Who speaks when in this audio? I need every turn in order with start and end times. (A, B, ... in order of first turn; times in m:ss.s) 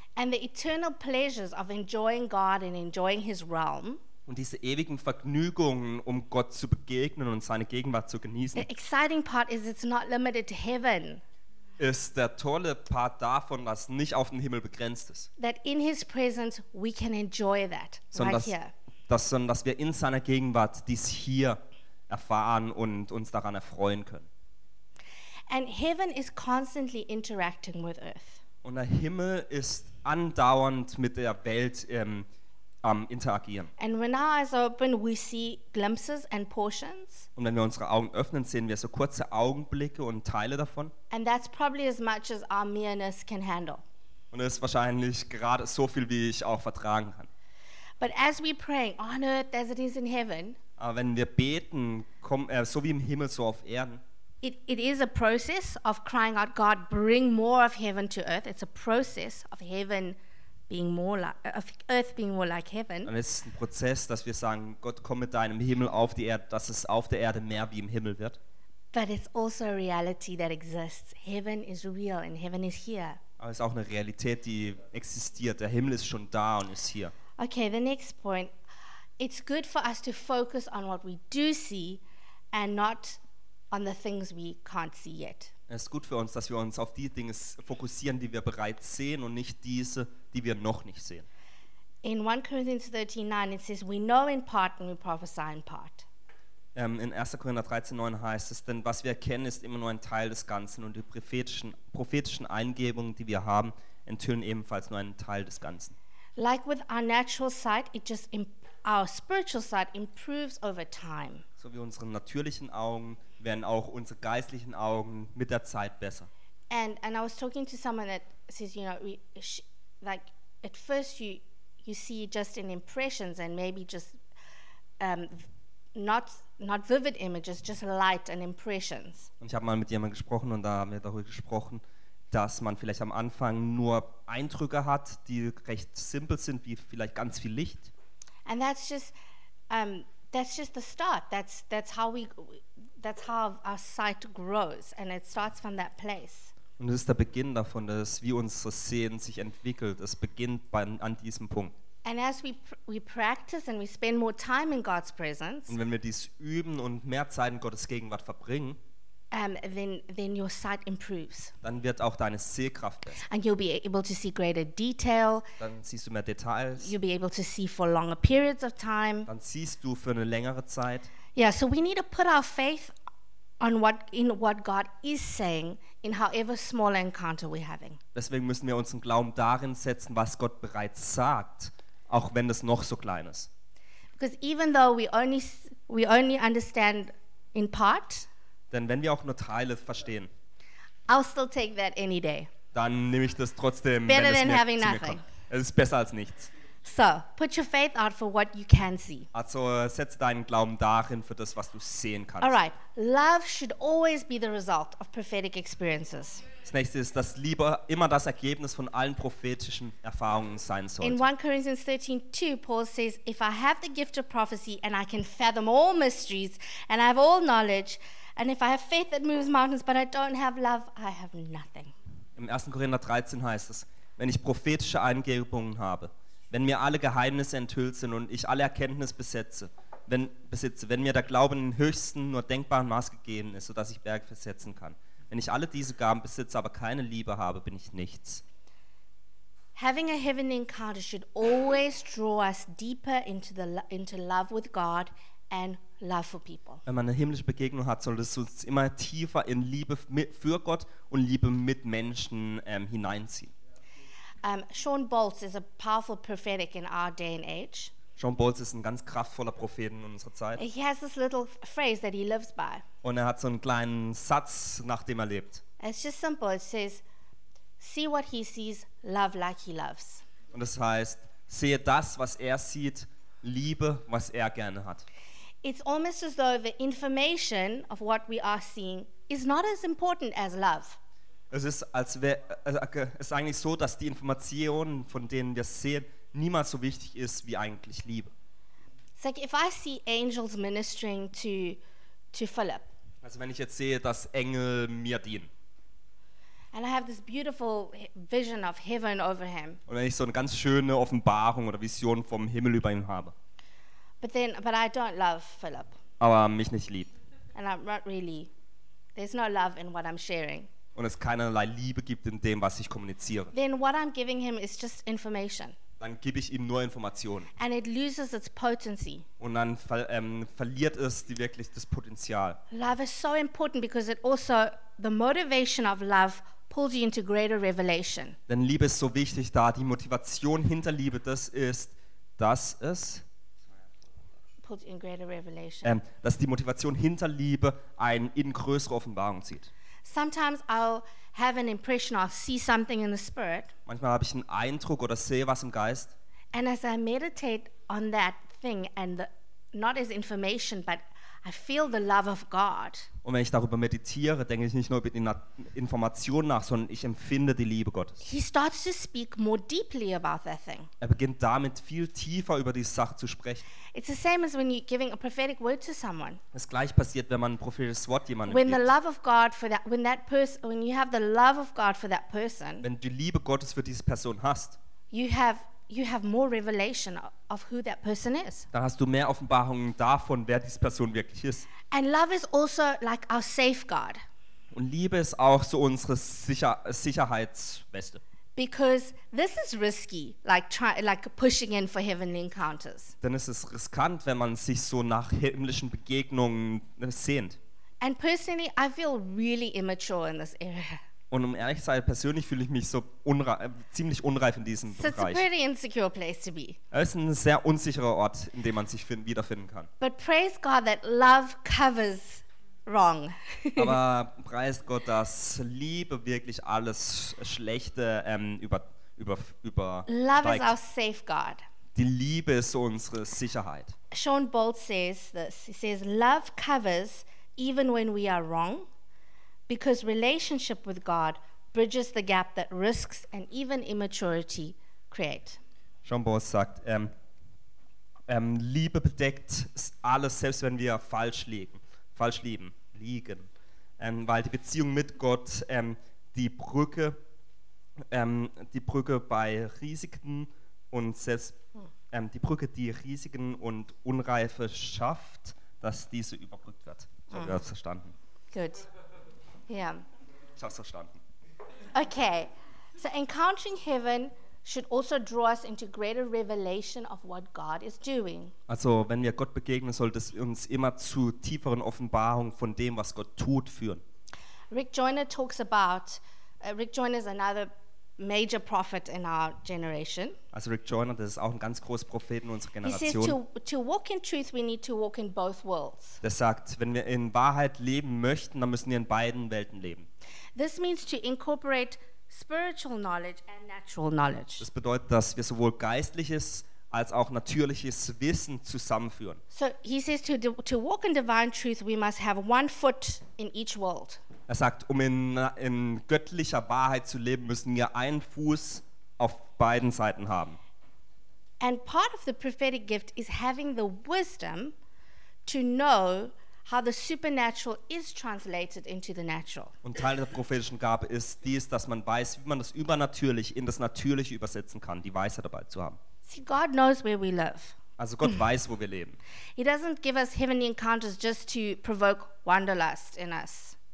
0:00.2-0:04.0 A
0:04.3-0:08.7 B
0:08.6-0:11.2 A
0:11.8-0:15.3 B
0:15.4-0:18.7 A
0:18.2-0:18.6 B
0:19.1-0:24.3 B
0:25.5-0:28.4 A
0:28.6-0:32.3 B
0:32.8-0:33.7 B
0:33.8-0:37.3 A
0:37.4-0:40.9 B
0:41.1-0:43.8 A
0:44.3-0:47.3 B
0:48.0-0:50.6 A
0:50.8-0:54.0 B
0:54.4-1:00.2 A
1:00.7-1:03.1 A
1:03.1-1:08.4 B
1:08.9-1:13.2 A
1:13.4-1:17.1 B
1:17.4-1:18.5 A
1:19.2-1:23.2 A
1:23.7-1:25.5 A
1:25.7-1:31.3 B
1:32.0-1:36.1 A
1:36.8-1:46.0 B
1:46.4-1:51.4 A
1:51.6-1:56.3 B
1:56.7-2:04.2 A
2:05.0-2:09.3 A
2:09.4-2:17.9 B
2:18.5-2:19.1 A
2:19.7-2:26.5 A
2:26.8-2:31.7 B
2:32.0-2:35.8 A
2:35.7-2:38.8 B
2:39.3-2:41.5 A
2:41.6-2:43.2 B
2:43.2-2:45.5 A
2:45.6-2:46.9 B
2:46.8-2:49.3 A
2:49.3-2:51.1 B
2:51.4-2:52.9 A
2:53.6-2:58.0 A
2:58.2-3:03.5 B
3:04.2-3:08.3 A
3:08.7-3:10.3 B
3:11.1-3:12.5 A
3:12.7-3:16.5 B
3:14.1-3:15.2 A
3:16.8-3:19.3 A
3:19.3-3:22.6 B
3:22.4-3:26.5 A
3:26.6-3:31.2 B
3:31.0-3:41.9 A
3:42.4-3:58.4 B
3:59.8-4:06.8 A
4:06.9-4:13.5 B
4:14.4-4:17.9 A
4:18.2-4:20.6 B
4:20.6-4:22.8 A
4:23.0-4:25.6 B
4:25.8-4:27.0 A
4:27.8-4:30.2 A
4:30.5-4:35.1 B
4:35.6-4:41.0 A
4:41.5-4:48.3 B
4:49.2-4:51.8 A
4:52.3-4:52.9 A
4:53.2-4:55.5 B
4:56.7-4:59.8 A
4:59.9-5:03.3 B
5:04.2-5:06.0 A
5:06.2-5:07.1 B
5:07.6-5:08.5 A
5:09.2-5:10.7 A
5:11.0-5:13.5 B
5:13.5-5:15.8 A
5:16.0-5:17.5 B
5:17.6-5:19.3 A
5:19.4-5:22.6 B
5:22.7-5:28.4 A
5:28.5-5:33.2 B
5:34.6-5:36.0 A
5:35.8-5:39.7 B
5:40.0-5:43.7 A
5:43.9-5:46.1 B
5:46.5-5:53.1 A
5:53.2-5:58.2 B
5:58.2-6:00.9 A
6:01.0-6:03.6 B
6:03.9-6:06.4 A
6:06.5-6:08.9 B
6:08.5-6:12.9 A
6:12.8-6:14.8 B
6:15.1-6:18.7 A
6:18.7-6:21.7 B
6:21.9-6:24.2 A
6:24.7-6:28.2 B
6:28.6-6:33.2 A
6:33.2-6:37.6 B
6:38.0-6:41.0 A
6:41.3-6:45.4 B
6:45.0-6:46.8 A
6:46.9-6:49.9 B
6:50.0-6:54.0 A
6:53.8-7:00.8 B
7:00.1-7:01.6 A
7:02.0-7:04.0 B
7:04.1-7:08.9 A
7:09.7-7:15.6 A
7:16.0-7:17.1 B
7:18.3-7:23.5 B
7:24.0-7:27.2 B
7:28.1-7:31.6 B
7:32.1-7:38.1 B
7:38.5-7:38.8 A
7:39.7-7:40.0 A
7:40.6-7:41.2 B
7:41.9-7:48.5 A
7:48.7-7:54.0 B
7:54.7-8:00.4 A
8:00.5-8:03.4 B
8:02.8-8:06.2 A
8:06.2-8:10.1 B
8:10.6-8:14.7 A
8:14.6-8:19.4 B
8:19.5-8:24.2 A
8:24.5-8:30.6 B
8:31.6-8:34.8 A
8:35.4-8:39.7 A
8:39.8-8:46.0 B
8:46.3-8:47.8 A
8:48.0-8:49.2 B
8:49.6-8:53.8 A